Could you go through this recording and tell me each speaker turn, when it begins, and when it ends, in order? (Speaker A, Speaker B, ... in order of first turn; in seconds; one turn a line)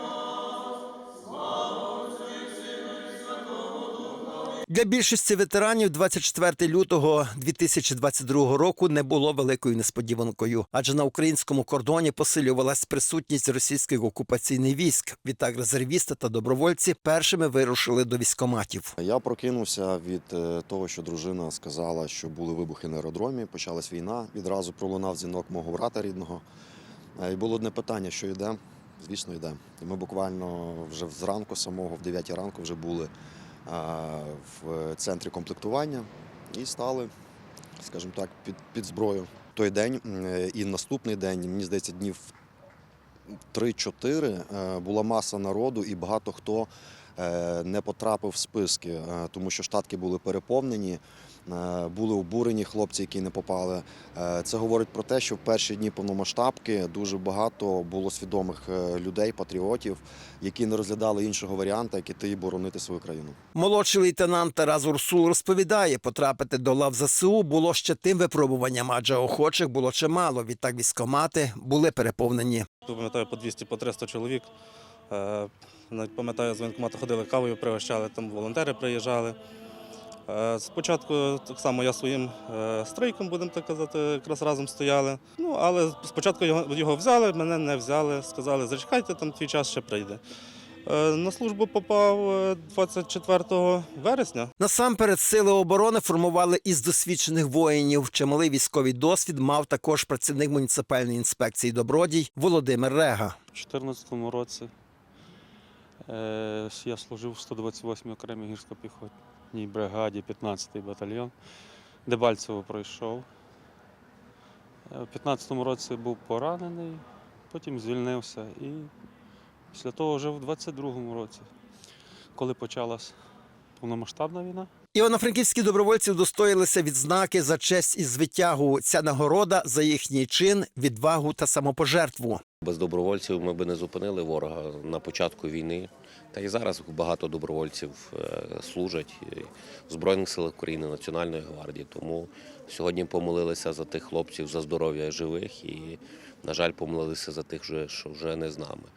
Speaker A: 4.7-18.9
Speaker B: 19.0-26.4
Speaker B: 27.2-33.1
Speaker B: 33.7-37.1
Speaker B: 37.8-42.3
Speaker B: 43.5-63.4
Speaker A: 63.5-72.7
Speaker C: 72.8-74.5
Speaker C: 75.1-79.4
Speaker C: 80.3-90.2
Speaker C: 90.8-94.5
Speaker A: 94.6-103.4
Speaker D: 103.5-104.7
Speaker D: 106.1-111.3
Speaker D: 112.0-113.3
Speaker D: 114.9-118.9
Speaker D: 119.7-121.5
Speaker D: 122.3-123.1
Speaker D: 123.8-124.7
Speaker A: 125.0-132.4
Speaker E: 132.6-148.9